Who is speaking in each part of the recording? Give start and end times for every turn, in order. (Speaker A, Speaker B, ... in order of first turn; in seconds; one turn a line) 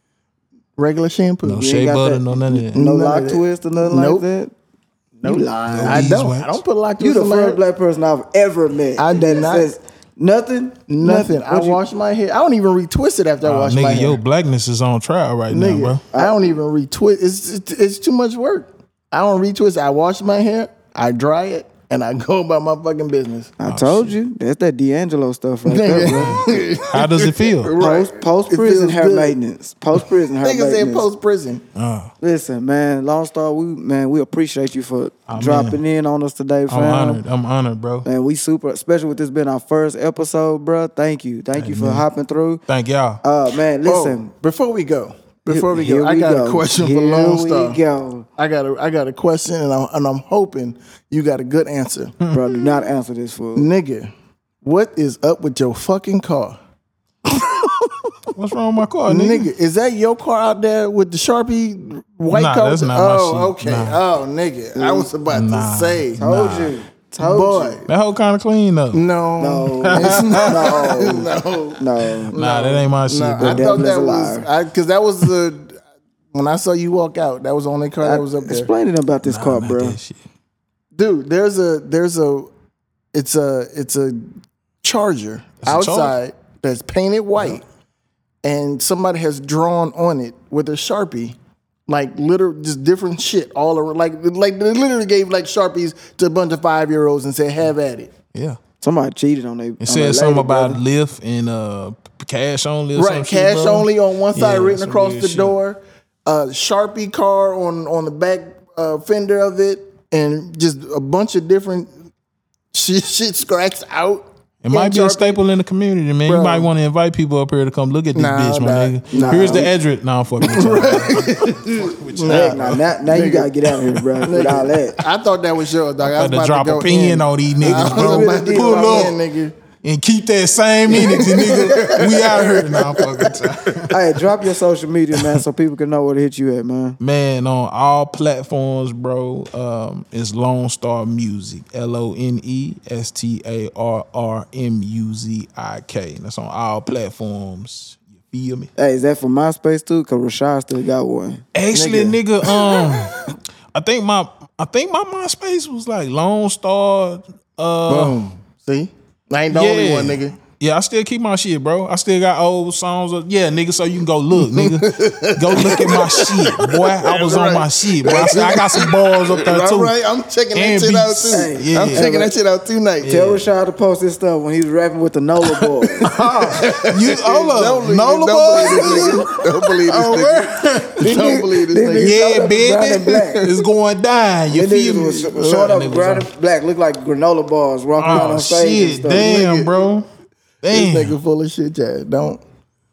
Speaker A: 0.8-1.6
Speaker B: 1.4-2.8
Speaker C: 1.5-4.5
Speaker A: 2.7-4.2
Speaker A: 5.2-7.6
Speaker C: 5.2-6.0
Speaker B: 5.7-6.6
Speaker C: 7.0-11.8
Speaker A: 9.0-9.7
Speaker A: 10.9-14.2
Speaker B: 13.4-16.0
Speaker A: 15.5-23.5
Speaker C: 23.6-26.4
Speaker B: 23.7-24.1
Speaker A: 25.7-29.4
Speaker B: 26.0-27.8
Speaker C: 27.8-31.1
Speaker A: 30.4-31.6
Speaker B: 31.8-32.1
Speaker C: 32.2-37.2
Speaker B: 35.3-35.8
Speaker B: 36.7-38.1
Speaker C: 38.0-42.6
Speaker B: 41.6-42.1
Speaker B: 42.7-43.2
Speaker C: 43.2-44.3
Speaker A: 43.9-47.8
Speaker C: 45.5-48.3
Speaker A: 48.4-52.2
Speaker C: 52.3-53.7
Speaker A: 53.5-54.1
Speaker A: 54.6-56.6
Speaker B: 58.3-59.5
Speaker A: 59.1-66.3
Speaker B: 62.3-64.0
Speaker C: 64.8-65.1
Speaker B: 65.3-66.7
Speaker C: 66.2-67.8
Speaker A: 67.2-67.9
Speaker B: 67.9-69.0
Speaker A: 68.9-75.8
Speaker C: 69.4-72.3
Speaker B: 69.8-70.8
Speaker B: 72.3-73.8
Speaker C: 73.4-74.5
Speaker A: 76.3-78.7
Speaker C: 78.0-80.0
Speaker B: 79.2-80.2
Speaker A: 81.0-82.5
Speaker A: 83.1-87.6
Speaker B: 85.6-86.2
Speaker A: 88.4-98.1
Speaker C: 98.8-100.8
Speaker B: 99.8-105.6
Speaker A: 103.0-111.9
Speaker A: 112.7-115.4
Speaker B: 114.6-122.8
Speaker A: 116.2-116.7
Speaker A: 118.2-119.7
Speaker C: 119.1-119.7
Speaker A: 120.4-123.6
Speaker C: 122.3-125.0
Speaker B: 124.0-124.6
Speaker A: 124.2-129.6
Speaker B: 126.0-129.2
Speaker C: 127.6-129.1
Speaker B: 129.8-134.0
Speaker A: 130.9-133.4
Speaker C: 131.3-132.0
Speaker C: 133.9-137.0
Speaker B: 137.0-148.7
Speaker C: 148.8-151.4
Speaker B: 151.6-158.2
Speaker A: 151.7-153.3
Speaker A: 157.9-160.3
Speaker B: 159.5-169.9
Speaker A: 164.4-173.1
Speaker B: 170.5-172.1
Speaker C: 171.3-172.3
Speaker B: 173.0-173.5
Speaker C: 173.1-176.1
Speaker A: 175.9-182.2
Speaker B: 176.0-181.2
Speaker C: 177.2-177.5
Speaker C: 178.6-179.2
Speaker C: 181.0-183.4
Speaker B: 182.0-186.3
Speaker A: 183.2-183.6
Speaker C: 184.5-189.3
Speaker A: 185.4-185.7
Speaker B: 188.0-190.1
Speaker A: 189.0-189.8
Speaker B: 190.6-191.2
Speaker A: 190.7-192.4